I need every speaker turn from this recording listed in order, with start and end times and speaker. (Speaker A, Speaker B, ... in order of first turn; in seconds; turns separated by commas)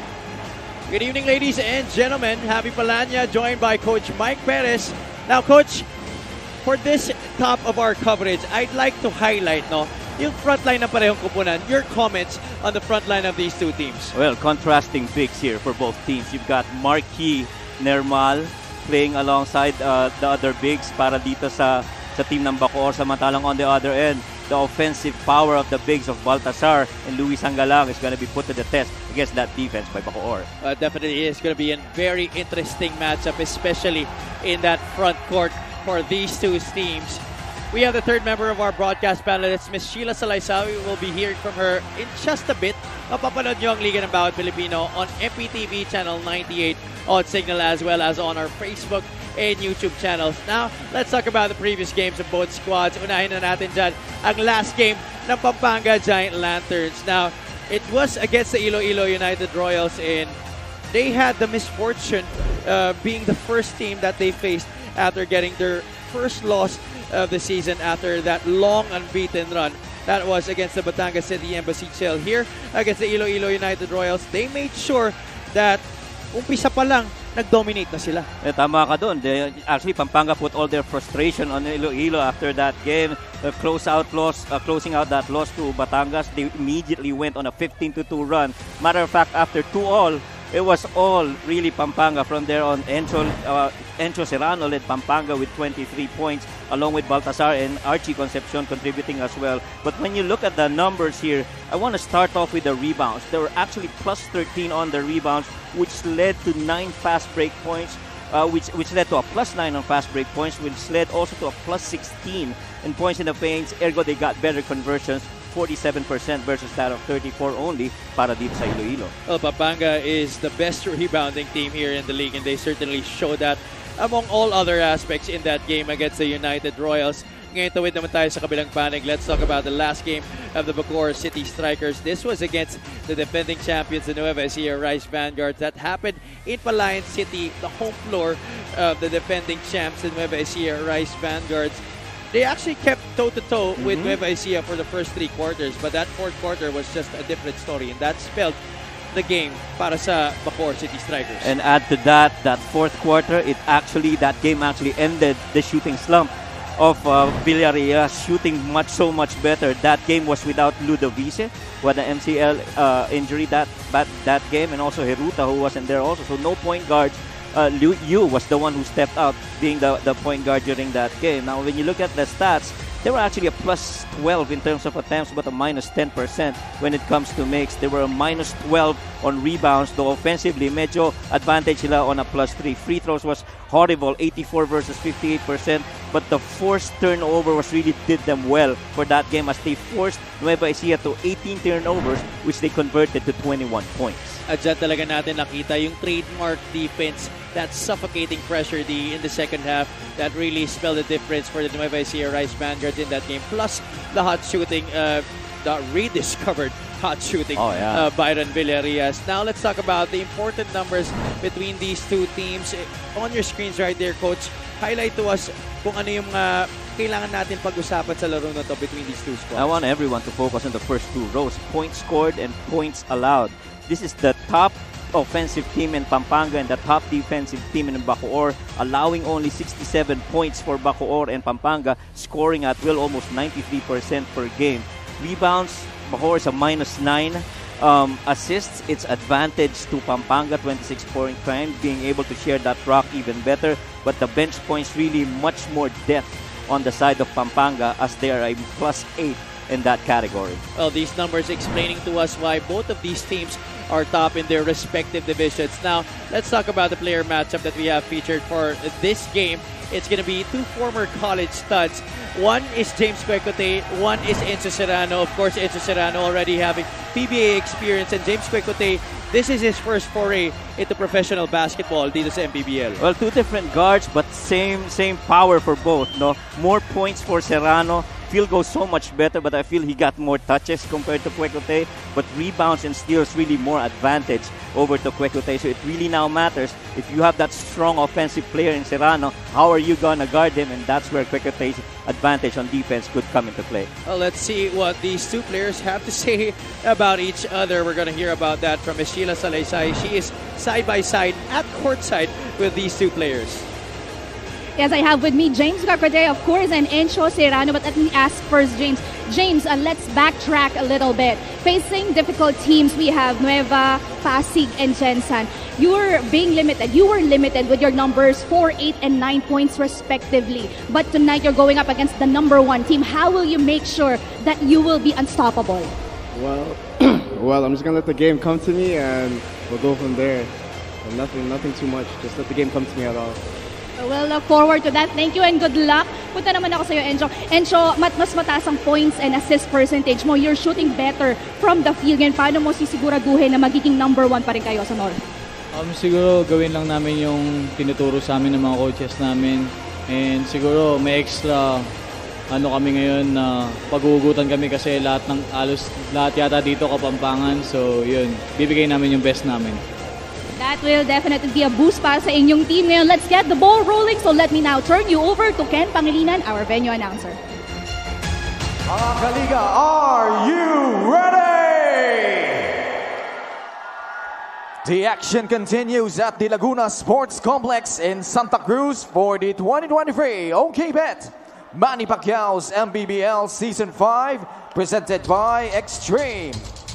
Speaker A: 0.9-5.9, Speaker A: 6.6-14.1, Speaker B: 14.1-30.5, Speaker A: 30.6-60.4, Speaker A: 60.9-78.3, Speaker B: 78.4-119.1, Speaker A: 119.3-148.6, Speaker B: 143.8-144.2, Speaker A: 149.1-151.5, Speaker B: 151.4-194.4, Speaker A: 194.5-219.7, Speaker B: 207.6-208.1, Speaker B: 219.5-250.6, Speaker A: 250.8-273.0, Speaker B: 273.0-293.9, Speaker A: 294.1-303.7, Speaker C: 304.8-325.9, Speaker D: 326.3-330.5, Speaker D: 331.0-333.4, Speaker C: 334.0-345.2, Speaker E: 345.7-351.9, Speaker E: 352.5-359.8, Speaker C: 360.5-367.4, Speaker F: 368.9-372.8, Speaker F: 374.8-386.7